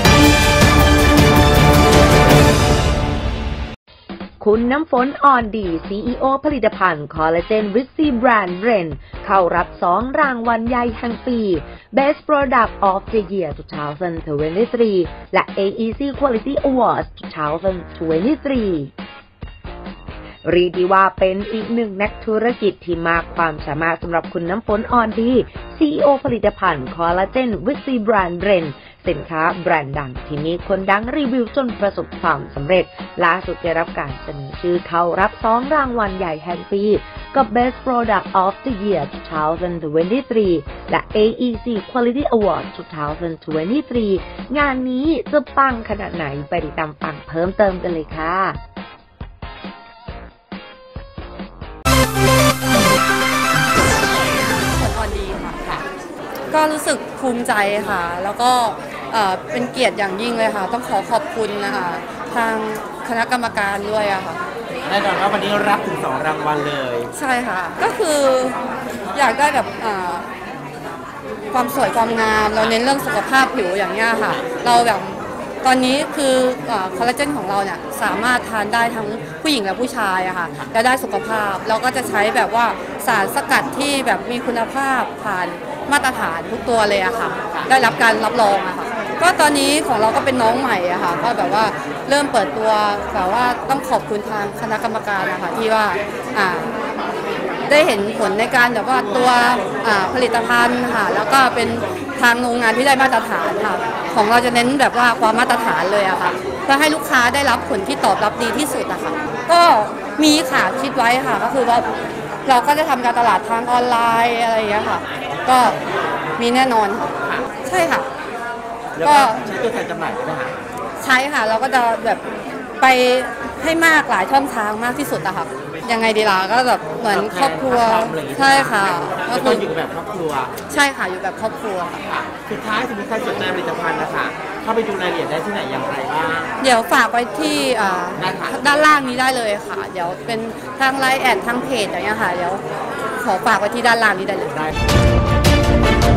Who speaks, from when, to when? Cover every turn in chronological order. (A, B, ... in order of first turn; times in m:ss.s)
0:04.4-0:18.9 A
0:20.4-0:48.6 A
0:54.6-0:55.8 B
0:56.5-1:04.4 B
1:04.8-1:07.1 C
1:07.1-1:08.6 B
1:09.1-1:10.3 B
1:11.5-1:36.7 B
1:37.6-1:51.9 B
1:52.4-1:55.8 B
1:56.4-1:58.1 B
1:59.0-2:00.7 C
1:59.0-1:59.4 B
2:01.0-2:02.2 B
2:02.8-2:09.7 B
2:07.0-2:10.5 C
2:10.7-2:12.0 B
2:12.0-2:16.6 C
2:16.6-2:22.6 B
2:18.2-2:18.9 C
2:23.2-2:24.6 B